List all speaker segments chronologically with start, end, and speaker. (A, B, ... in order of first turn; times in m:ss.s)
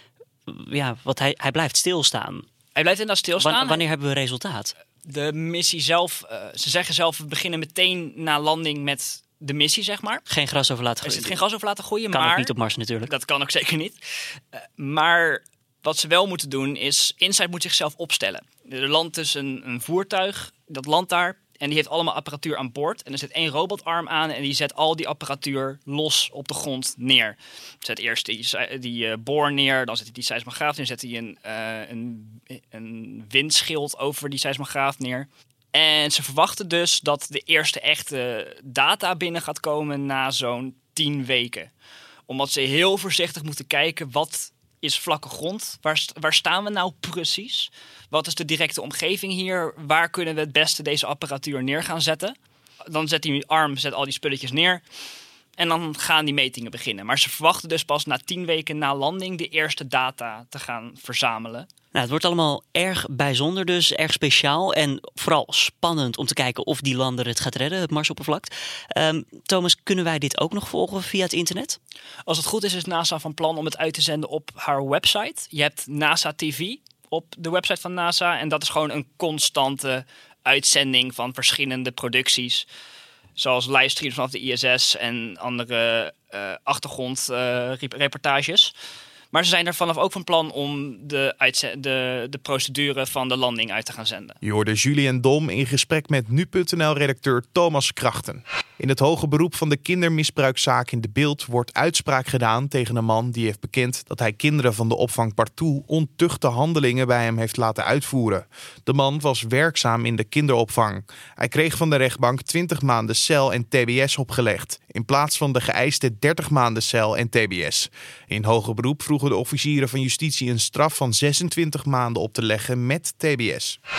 0:00.5-0:02.5 A
0:02.8-0:03.9 B
0:03.4-0:04.7 A
0:05.0-0:10.2 B
0:10.3-0:11.4 A
0:11.0-0:12.5 B
0:12.1-0:13.1 A
0:13.1-0:14.0 B
0:14.5-0:41.7 B
0:42.3-0:52.3 B
0:52.9-0:54.8 B
0:55.6-1:01.7 B
1:01.9-1:11.8 A
1:12.3-1:22.7 B
1:23.4-1:28.7 B
1:29.3-1:34.4 B
1:34.4-2:03.8 C